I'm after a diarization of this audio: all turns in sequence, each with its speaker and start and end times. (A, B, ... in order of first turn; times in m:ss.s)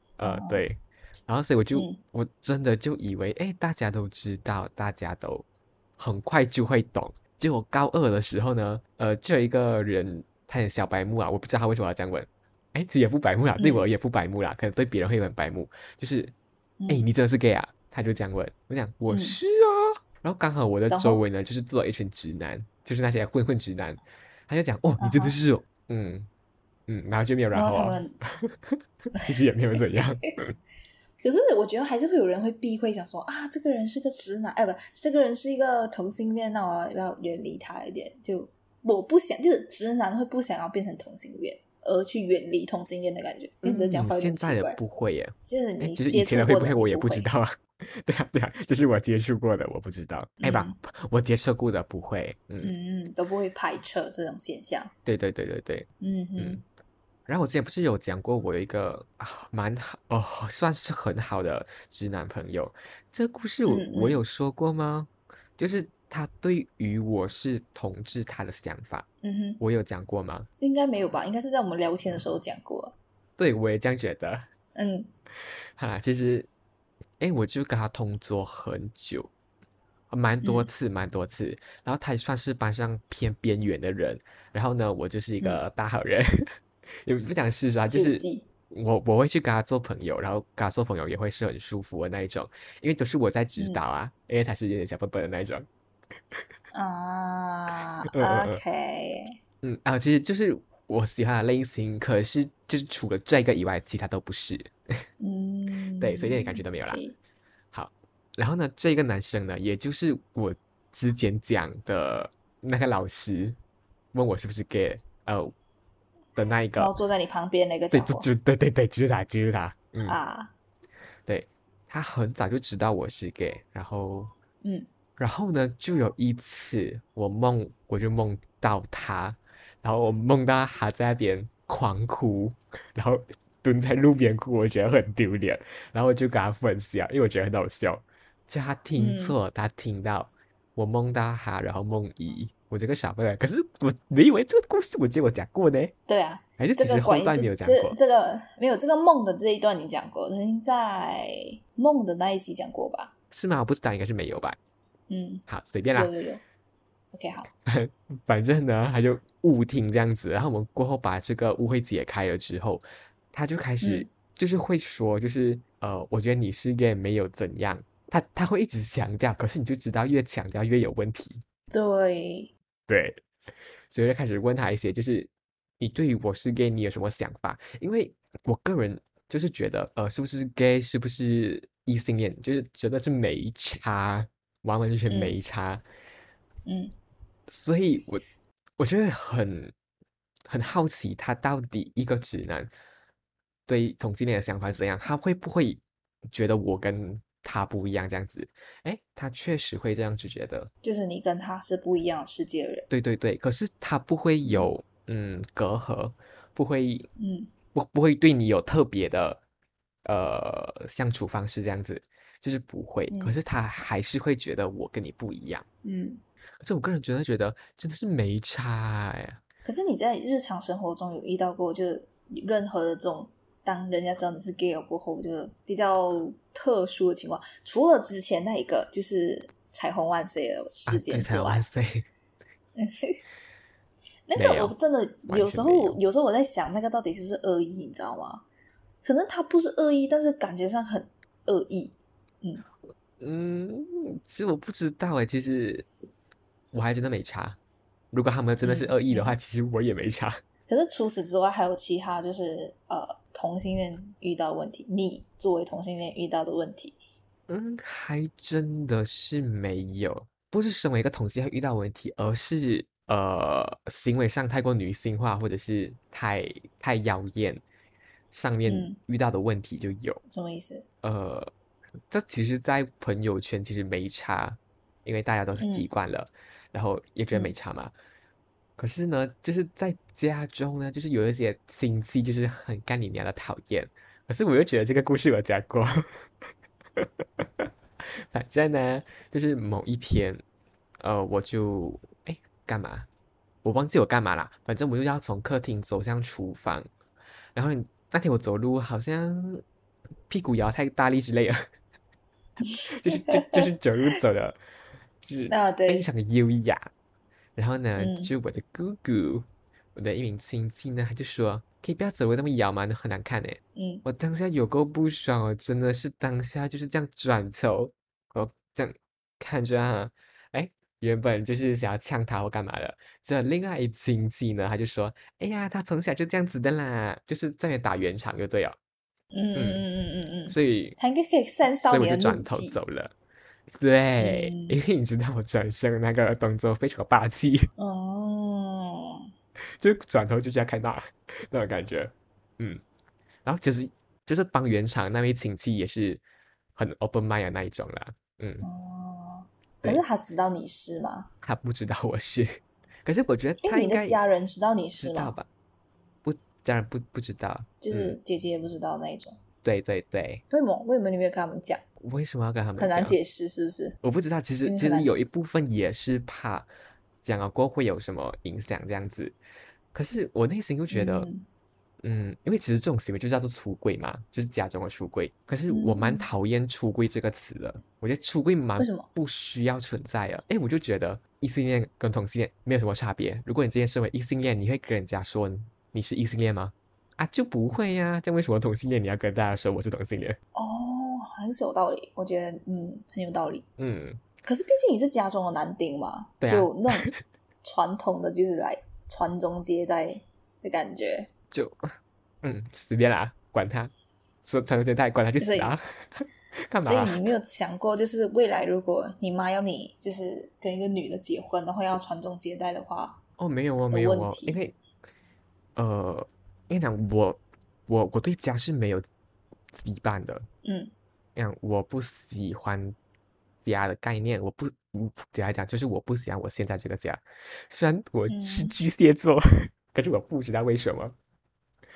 0:00.2-0:05.4 A
0:00.2-0:00.6 B
0:01.7-0:02.0 B
0:06.0-0:16.3 A
0:13.6-0:13.8 B
0:16.8-0:17.1 B
0:16.9-0:26.3 A
0:19.1-0:19.4 B
0:20.9-0:21.2 B
0:25.0-0:25.4 B
0:26.9-0:28.5 A
0:27.5-0:28.2 B
0:29.1-0:30.5 A
0:31.2-0:44.8 B
0:43.6-0:52.7 A
0:45.4-0:47.3 B
0:50.4-0:50.8 B
0:52.6-0:54.9 B
0:55.0-0:56.6 A
0:56.0-0:56.6 B
0:57.3-1:09.1 A
1:03.6-1:04.2 B
1:09.2-1:09.6 B
1:09.6-1:10.5 A
1:10.6-1:12.9 B
1:13.4-1:14.5 A
1:14.7-1:15.1 B
1:15.8-1:16.5 A
1:17.2-1:19.3 A
1:20.1-1:35.7 A
1:20.4-1:20.7 B
1:27.9-1:28.4 B
1:33.6-1:33.8 B
1:36.7-1:39.3 B
1:38.1-1:38.6 A
1:39.6-1:44.7 A
1:45.2-1:47.2 B
1:46.0-1:47.0 A
1:47.7-1:53.6 A
1:54.1-1:55.5 A
1:56.4-1:56.9 A
1:56.8-1:58.3 B
1:57.9-2:00.2 A
2:00.0-2:00.5 B
2:01.2-2:04.3 A
2:04.6-2:04.9 B
2:05.2-2:25.9 A
2:19.0-2:19.4 B
2:26.1-2:33.1 B
2:26.6-2:28.0 A
2:33.3-2:34.6 A
2:35.1-2:36.4 B
2:35.5-2:36.1 A
2:37.1-2:37.5 B
2:37.6-2:51.4 A
2:43.8-2:44.1 B
2:51.7-2:52.5 B
2:52.9-2:53.2 A
2:53.9-3:05.8 A
3:05.1-3:05.4 B
3:06.6-3:06.9 B
3:07.5-3:08.2 A
3:08.8-3:09.7 A
3:10.5-3:12.7 A
3:13.7-3:20.7 A
3:20.8-3:22.9 B
3:22.9-3:27.1 A
3:24.4-3:24.7 B
3:27.2-3:27.5 B
3:27.7-3:29.4 A
3:30.0-3:35.6 A
3:33.1-3:33.3 B
3:35.8-3:36.2 B
3:36.6-3:39.4 A
3:39.6-3:51.6 B
3:50.9-3:52.1 A
3:52.8-3:53.2 B
3:54.3-3:58.4 B
3:54.4-3:54.7 A
3:55.3-3:56.0 A
3:59.0-4:02.6 B
4:03.2-4:05.9 A
4:06.7-4:07.6 A
4:08.1-4:10.4 A
4:08.6-4:09.4 B
4:10.7-4:17.0 B
4:17.5-4:27.6 A
4:28.3-4:30.2 A
4:28.6-4:29.0 B
4:30.3-4:30.8 B
4:31.0-4:31.5 A
4:32.1-4:37.9 A
4:35.6-4:35.9 B
4:38.8-4:46.0 A
4:47.0-4:47.6 A
4:48.3-4:50.4 A
4:51.0-4:53.1 A
4:53.6-4:56.9 A
4:57.5-4:59.6 A
5:00.3-5:01.6 A
5:02.6-5:02.9 B
5:02.9-5:04.6 A
5:05.2-5:06.9 A
5:05.5-5:06.1 B
5:07.6-5:28.8 A
5:08.0-5:08.3 B
5:13.7-5:14.0 B
5:29.3-5:32.8 B
5:29.5-5:29.8 A
5:30.5-5:31.0 A
5:31.8-5:33.1 A
5:33.7-5:37.7 A
5:34.2-5:34.8 B
5:37.8-5:39.3 B
5:39.8-5:42.8 A
5:43.4-5:46.2 A
5:46.8-5:48.7 A
5:48.6-5:51.3 B
5:51.4-5:54.2 A
5:53.6-5:55.3 B
5:55.0-5:55.5 A
5:56.2-5:58.2 A
5:57.8-5:59.4 B
5:59.6-6:00.4 A
6:00.5-6:01.8 B
6:02.0-6:03.2 A
6:02.8-6:04.0 B
6:04.0-6:06.7 A
6:04.6-6:05.3 B
6:07.2-6:09.4 A
6:09.9-6:11.3 A
6:10.9-6:11.4 B
6:12.0-6:30.4 A
6:15.7-6:16.3 B
6:18.8-6:19.1 B
6:30.5-6:33.6 B
6:33.8-6:34.2 A
6:34.4-6:37.1 B
6:36.4-6:37.2 A
6:37.6-6:41.3 B
6:41.5-6:41.9 A
6:42.4-6:43.9 A
6:44.4-6:47.3 A
6:45.4-6:45.7 B
6:46.8-6:53.2 B
6:53.4-6:54.8 A
6:53.9-6:54.6 B
6:55.8-6:59.0 A
6:59.7-7:00.5 A
7:00.6-7:00.9 B
7:01.4-7:03.0 A
7:03.6-7:11.2 A
7:08.3-7:08.7 B